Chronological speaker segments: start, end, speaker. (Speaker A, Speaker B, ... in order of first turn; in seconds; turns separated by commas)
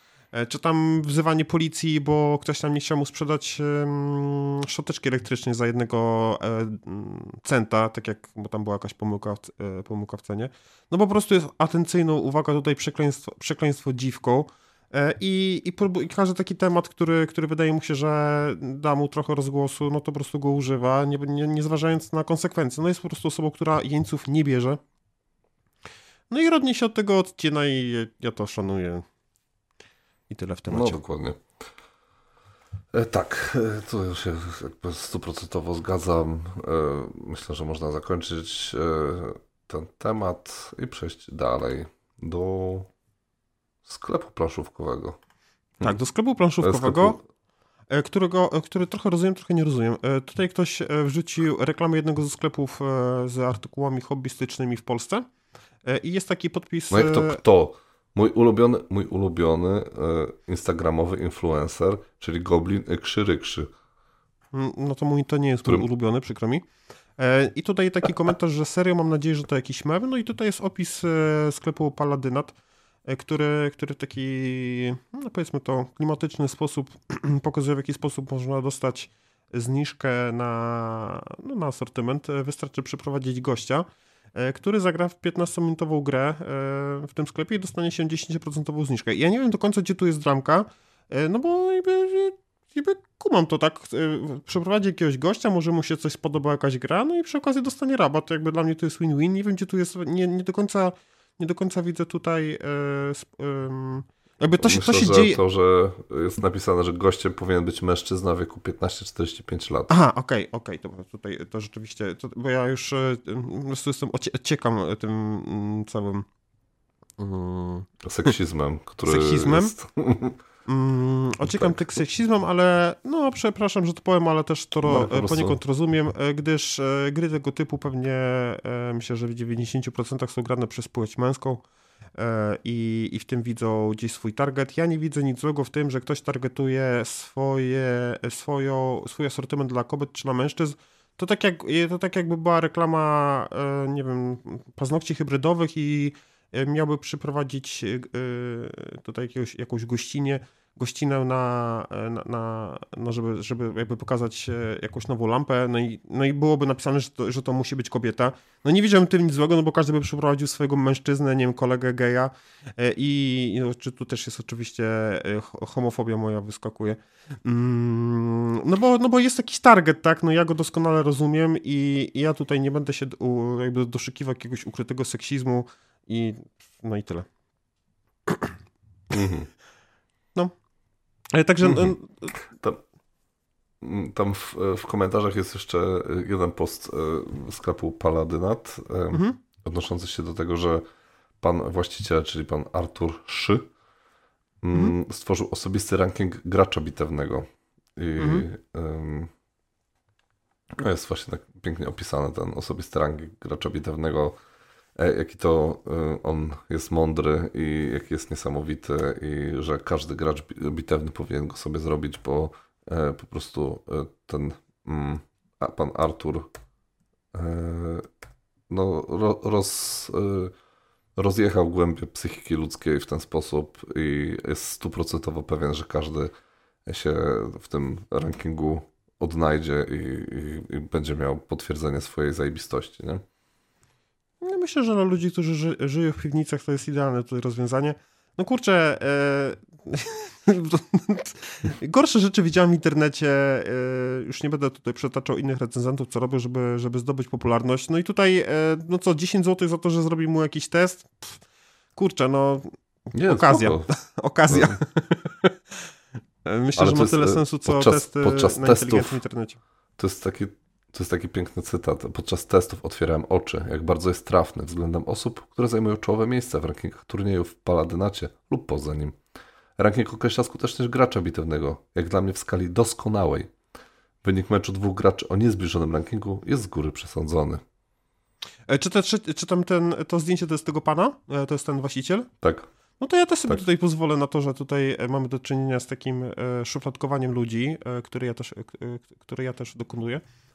Speaker A: 0.3-24.8, Speaker A: 26.3-29.0, Speaker A: 30.3-31.0, Speaker B: 30.7-31.4, Speaker B: 32.9-42.9, Speaker B: 43.9-45.2, Speaker A: 45.8-47.2, Speaker B: 46.6-47.2, Speaker A: 47.9-55.3, Speaker A: 55.8-57.4, Speaker B: 56.9-63.7, Speaker A: 64.5-66.7, Speaker A: 67.2-72.5, Speaker A: 73.0-105.4, Speaker B: 104.6-109.9, Speaker A: 109.9-116.3, Speaker A: 117.2-118.3, Speaker B: 118.0-120.4, Speaker A: 119.0-119.7, Speaker A: 120.7-131.6, Speaker B: 121.4-121.8, Speaker B: 124.8-125.6, Speaker A: 132.2-177.3, Speaker A: 178.2-178.5, Speaker B: 179.1-179.5, Speaker A: 181.3-182.3, Speaker B: 181.6-182.8, Speaker B: 183.8-190.8, Speaker B: 191.4-193.6, Speaker B: 194.6-199.3, Speaker A: 198.2-198.4, Speaker B: 200.8-204.3, Speaker B: 205.0-216.5, Speaker B: 217.3-218.1, Speaker B: 218.7-220.5, Speaker B: 221.2-226.3, Speaker B: 226.8-233.2, Speaker A: 234.4-251.4, Speaker A: 251.9-255.9, Speaker B: 253.1-253.9, Speaker B: 254.5-254.8, Speaker A: 256.4-259.6, Speaker B: 256.8-259.2, Speaker B: 260.0-269.1, Speaker B: 269.8-273.5, Speaker B: 274.2-277.6, Speaker A: 278.7-282.3, Speaker B: 282.4-282.7, Speaker A: 283.0-290.2